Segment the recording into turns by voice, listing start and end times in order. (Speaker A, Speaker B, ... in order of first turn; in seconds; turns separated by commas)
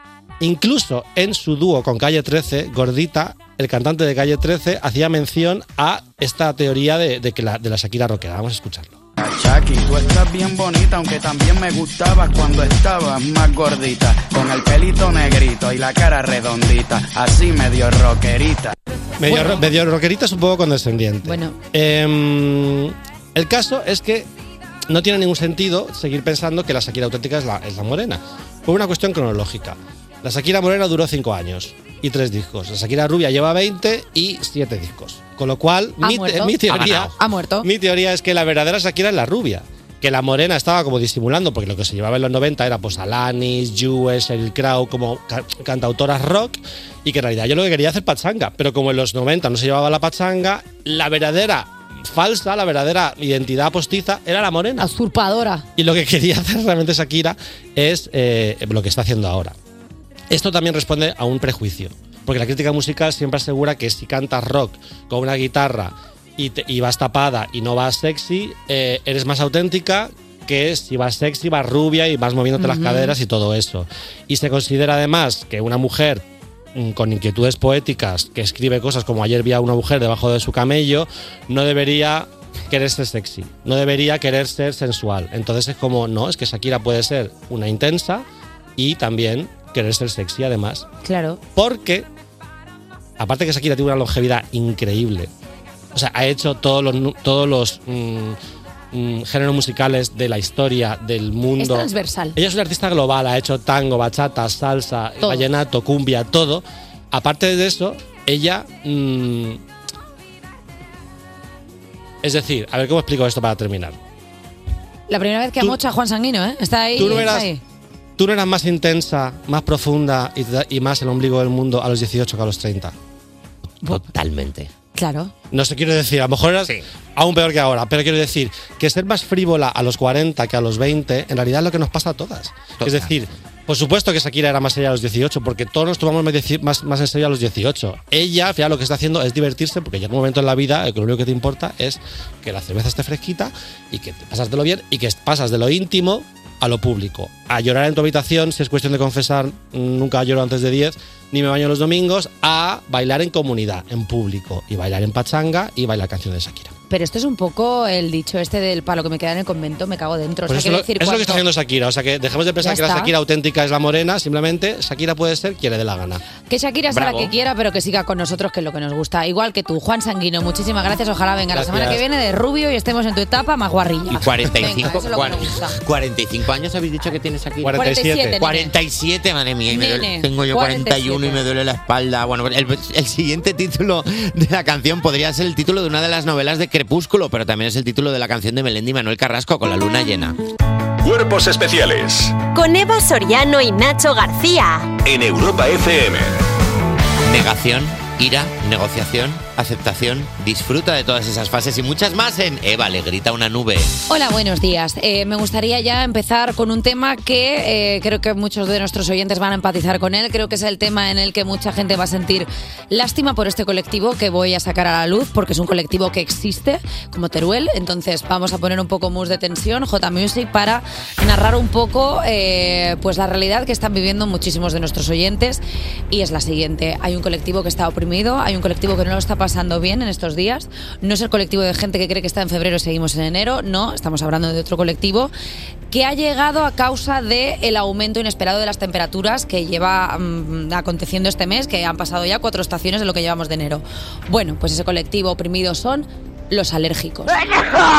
Speaker A: 0.4-8.9, Speaker B: 9.2-18.7, Speaker A: 19.2-24.3, Speaker C: 19.2-19.6, Speaker C: 21.2-21.6, Speaker A: 24.9-54.9, Speaker C: 36.0-37.7, Speaker D: 36.7-37.1, Speaker C: 54.8-55.6, Speaker A: 55.8-59.5, Speaker A: 60.3-76.2, Speaker C: 72.6-73.2, Speaker A: 76.7-88.2, Speaker A: 88.8-90.9, Speaker C: 91.0-91.4, Speaker A: 91.5-92.1, Speaker A: 93.2-95.3, Speaker A: 95.9-98.4, Speaker A: 98.9-109.6, Speaker C: 101.6-102.4, Speaker C: 105.2-105.5, Speaker A: 112.2-114.0, Speaker C: 115.1-117.6, Speaker A: 116.9-117.5, Speaker A: 118.2-122.9, Speaker D: 123.8-124.7, Speaker C: 124.9-125.3, Speaker A: 125.5-156.7, Speaker D: 132.8-133.2, Speaker C: 156.9-161.4, Speaker A: 160.5-166.2, Speaker C: 162.6-163.1, Speaker C: 166.5-175.8, Speaker D: 166.9-167.3, Speaker A: 171.5-172.0, Speaker D: 174.1-177.8, Speaker A: 177.6-178.4, Speaker C: 177.7-178.7, Speaker D: 178.4-190.4, Speaker C: 179.7-181.4, Speaker E: 191.0-192.4, Speaker F: 192.5-194.9, Speaker E: 195.0-196.4, Speaker D: 197.2-203.9, Speaker C: 204.1-235.3, Speaker C: 235.9-247.4